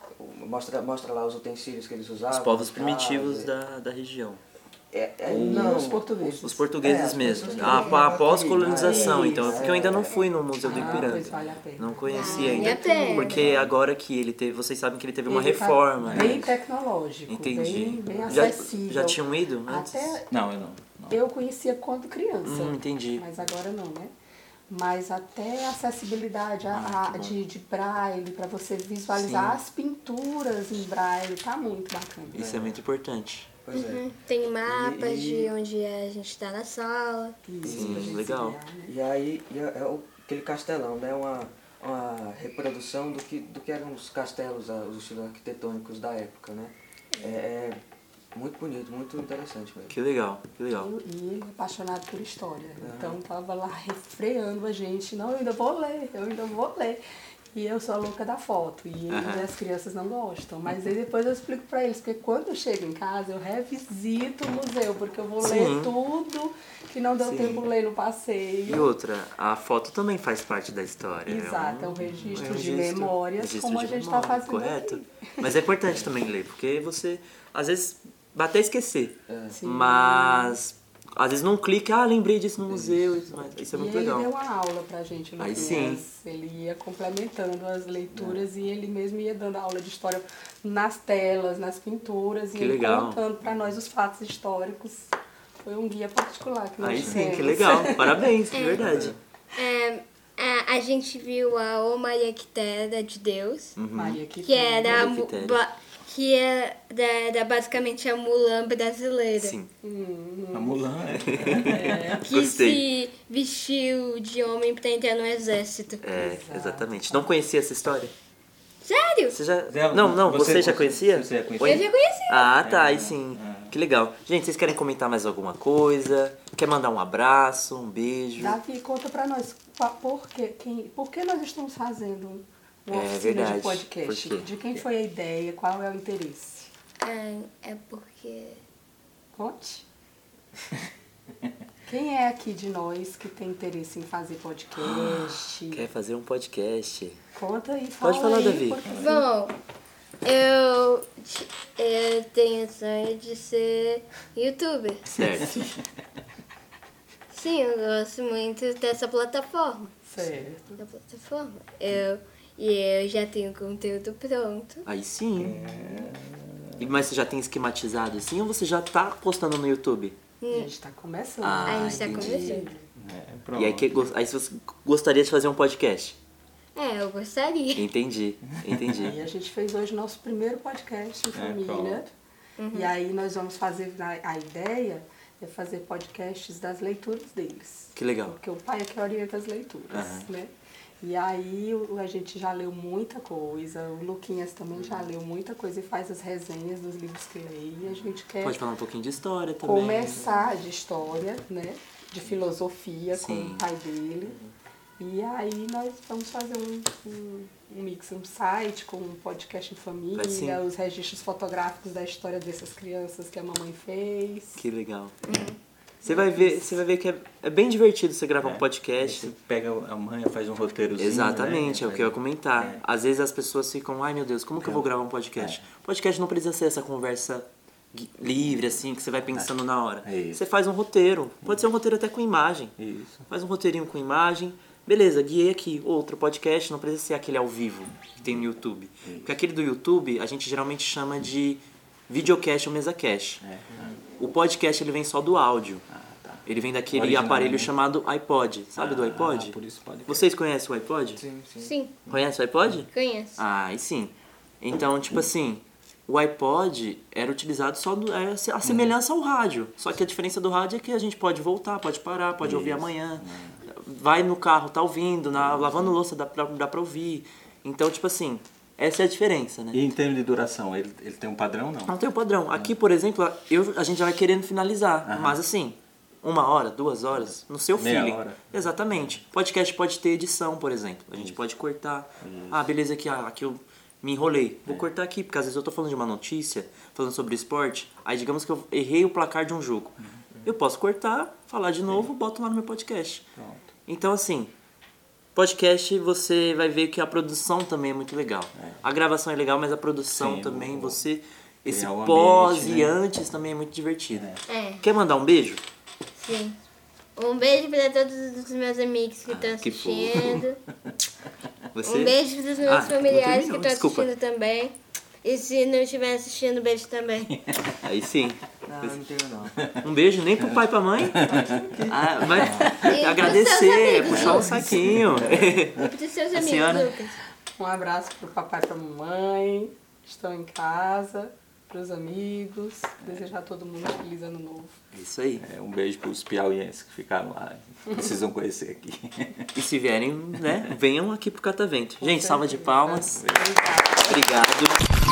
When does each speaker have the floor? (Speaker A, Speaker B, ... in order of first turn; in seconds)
Speaker A: 0.2-3.5, 4.9-10.2, 10.7-11.2, 18.1-18.5, 32.3-32.8, 33.6-34.0, 34.6-35.5, 37.6-38.2, 38.9-47.8, 48.3-50.0, 52.8-53.2, 79.3-79.6, 82.7-83.1, 88.1-88.4, 251.1-252.2, 318.6-319.5
Speaker B: 2.3-4.4, 5.3-5.9, 6.4-16.5, 17.3-20.2, 22.4-23.2, 29.1-29.6, 32.3-33.5, 37.6-38.6, 49.9-50.9, 59.1-59.5, 65.4-65.9, 67.2-67.6, 68.6-84.3, 85.4-86.0, 92.5-93.2, 96.8-99.1, 103.8-104.2, 104.8-105.6, 109.4-109.7, 111.3-112.8, 116.0-118.1, 119.3-128.6, 132.9-134.5, 144.8-147.2, 148.0-148.8, 155.1-155.6, 164.8-165.6, 166.8-170.2, 171.4-172.4, 173.5-176.2, 177.7-179.2, 187.9-188.4, 189.9-190.3, 194.8-195.1, 198.4-200.3, 203.1-203.6, 204.2-204.5, 210.1-210.6, 214.6-215.2, 216.0-219.3, 221.0-232.7, 233.3-243.4, 244.2-245.8, 246.4-249.6, 250.1-251.2, 252.1-269.8, 271.9-293.3, 293.9-294.5, 295.3-304.3, 304.8-305.6, 309.3-310.4, 311.7-314.1, 317.8-319.0, 319.8-321.3, 321.9-327.0, 334.9-335.4, 339.5-343.2, 344.1-344.9
Speaker C: 5.3-6.7, 7.3-8.1, 8.8-10.1, 10.6-13.5, 15.3-20.3, 21.1-24.1, 24.7-32.4, 37.4-38.9, 50.7-57.0, 57.5-68.9, 71.2-75.0, 79.5-80.6, 83.7-98.3, 103.9-105.0, 109.8-110.9, 111.5-112.2, 116.1-117.3, 128.4-136.7, 139.3-139.8, 141.8-145.9, 147.3-149.3, 160.1-160.8, 170.5-172.8, 179.0-182.1, 182.7-198.6, 199.6-204.4, 205.0-214.6, 216.0-216.8, 327.6-334.7, 342.0-344.4
Speaker D: 7.4-8.2, 12.1-13.4, 33.7-37.5, 47.1-47.4, 98.5-98.8, 99.5-103.7, 104.4-109.5, 112.2-116.0, 118.8-119.4, 121.6-122.5, 137.0-138.6, 148.9-149.5, 150.2-155.1, 157.3-164.8, 170.4-170.7, 171.7-172.7, 176.7-177.9, 182.6-182.9, 215.2-215.6, 251.6-252.0, 252.9-253.4, 304.5-304.8, 306.2-306.6, 307.2-310.6, 311.8-317.4, 322.7-324.8, 325.8-327.1
Speaker E: 13.2-13.7, 16.0-16.5, 20.3-21.2, 26.7-27.4, 110.5-112.1, 119.7-121.8, 122.5-123.7, 155.2-155.8, 165.3-167.0, 172.9-174.0, 178.7-179.2, 181.3-182.1, 218.4-222.8, 224.6-225.6, 229.3-230.4, 232.8-233.3, 238.2-238.4, 239.0-239.3, 243.4-244.0, 245.9-247.7, 248.8-250.3, 258.6-258.9, 262.4-263.6, 265.3-266.0, 269.7-271.9, 275.0-275.4, 277.1-279.2, 282.2-282.7, 290.0-290.5, 293.4-293.7, 298.6-298.8, 300.1-301.0, 301.6-303.0, 304.1-304.4, 319.6-321.8, 322.3-322.8, 324.1-325.7, 335.4-339.6, 340.4-340.7, 343.1-343.5